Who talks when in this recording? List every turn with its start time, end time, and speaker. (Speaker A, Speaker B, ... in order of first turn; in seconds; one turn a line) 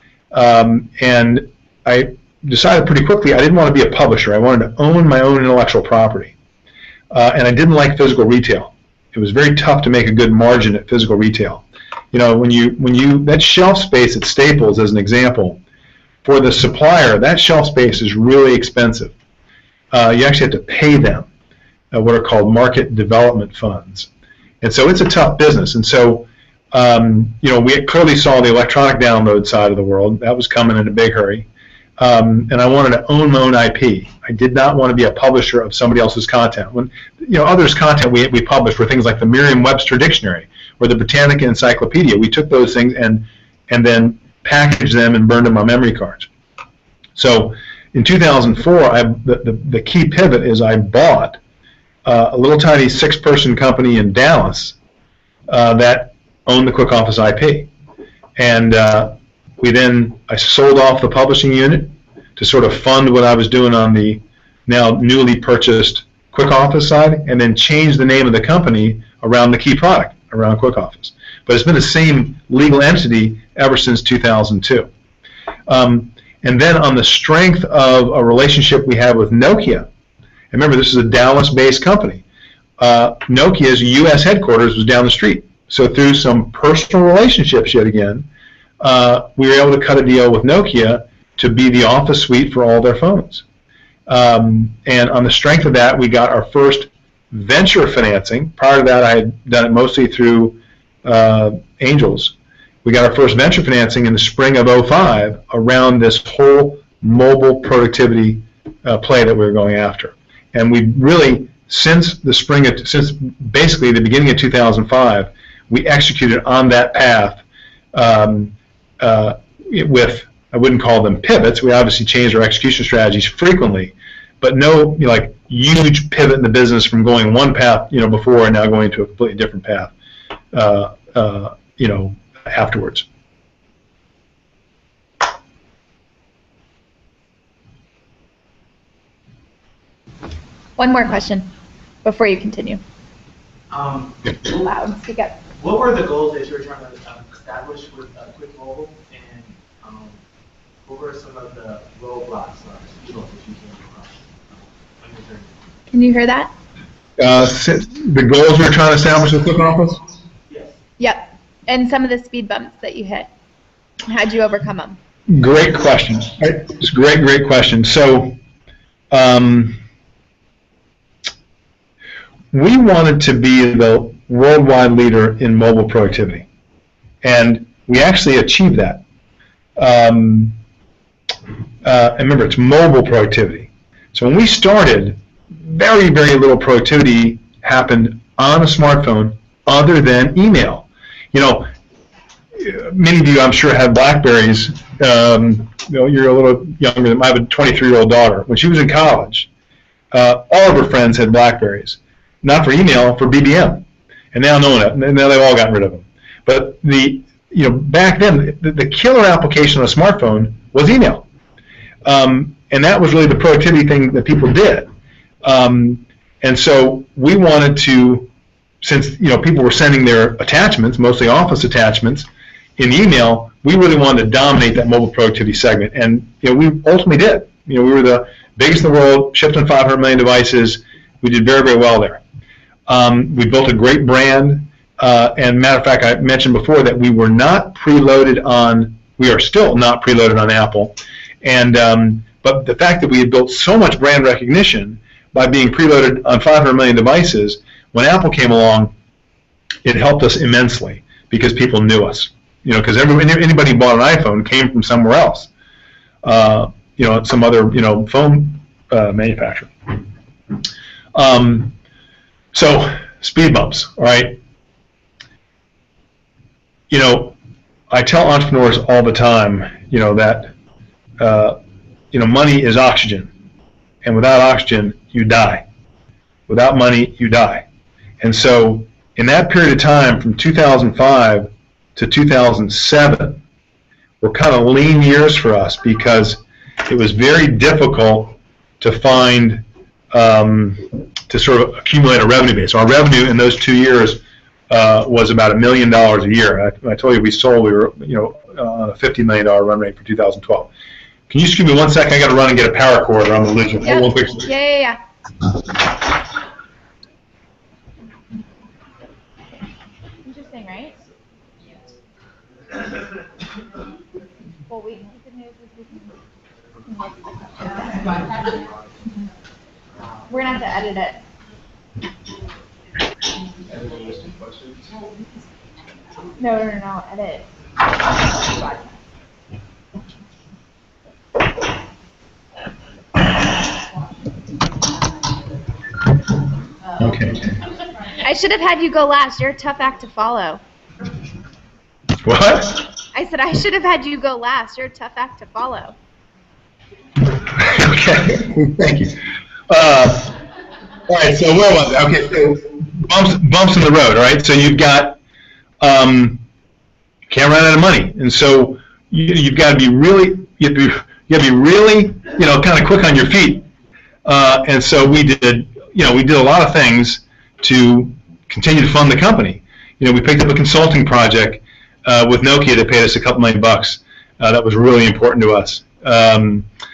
Speaker A: 0.3-6.3
Speaker A: 7.1-15.6
Speaker A: 16.2-19.1
Speaker A: 19.9-21.3
Speaker A: 21.9-24.1
Speaker A: 24.6-31.4
Speaker A: 32.0-46.3
Speaker A: 47.1-51.4
Speaker A: 52.0-54.8
Speaker A: 55.5-57.7
Speaker A: 58.4-74.9
Speaker A: 75.7-79.8
Speaker A: 80.5-82.2
Speaker A: 82.8-88.2
Speaker A: 88.8-93.4
Speaker A: 94.1-117.4
Speaker A: 117.9-129.9
Speaker A: 130.5-133.0
Speaker B: 140.8-141.5
Speaker B: 142.0-142.8
Speaker C: 143.7-144.3
Speaker B: 144.4-145.4
Speaker C: 145.5-150.2
Speaker C: 150.8-155.6
Speaker B: 155.9-156.5
Speaker A: 157.2-160.0
Speaker B: 161.0-163.3
Speaker B: 164.1-165.0
Speaker A: 165.3-168.3
Speaker A: 169.1-169.8
Speaker A: 172.5-176.4
Speaker A: 177.2-179.0
Speaker A: 179.8-180.6
Speaker A: 181.8-191.7
Speaker A: 192.5-199.5
Speaker A: 200.1-211.2
Speaker A: 212.0-214.9
Speaker A: 215.4-218.3
Speaker A: 218.8-232.2
Speaker A: 232.9-248.9
Speaker A: 249.8-255.5
Speaker A: 256.2-260.0
Speaker A: 261.1-261.7
Speaker A: 262.5-264.4
Speaker A: 266.9-267.4
Speaker A: 267.9-270.5
Speaker A: 271.2-271.6
Speaker A: 272.1-273.3
Speaker A: 274.0-275.6
Speaker A: 276.5-277.6
Speaker A: 278.2-283.4
Speaker A: 284.2-300.7
Speaker A: 301.3-304.5
Speaker B: 303.8-305.0
Speaker B: 310.2-310.9
Speaker B: 314.7-316.2
Speaker B: 316.9-318.0
Speaker B: 320.3-321.2
Speaker B: 326.4-327.5
Speaker B: 328.3-328.8
Speaker A: 337.0-337.5
Speaker B: 338.2-340.6
Speaker A: 342.2-342.8
Speaker B: 343.1-345.9
Speaker A: 347.4-350.3
Speaker A: 351.1-355.2
Speaker A: 355.8-356.4
Speaker A: 357.3-363.6
Speaker A: 364.2-376.6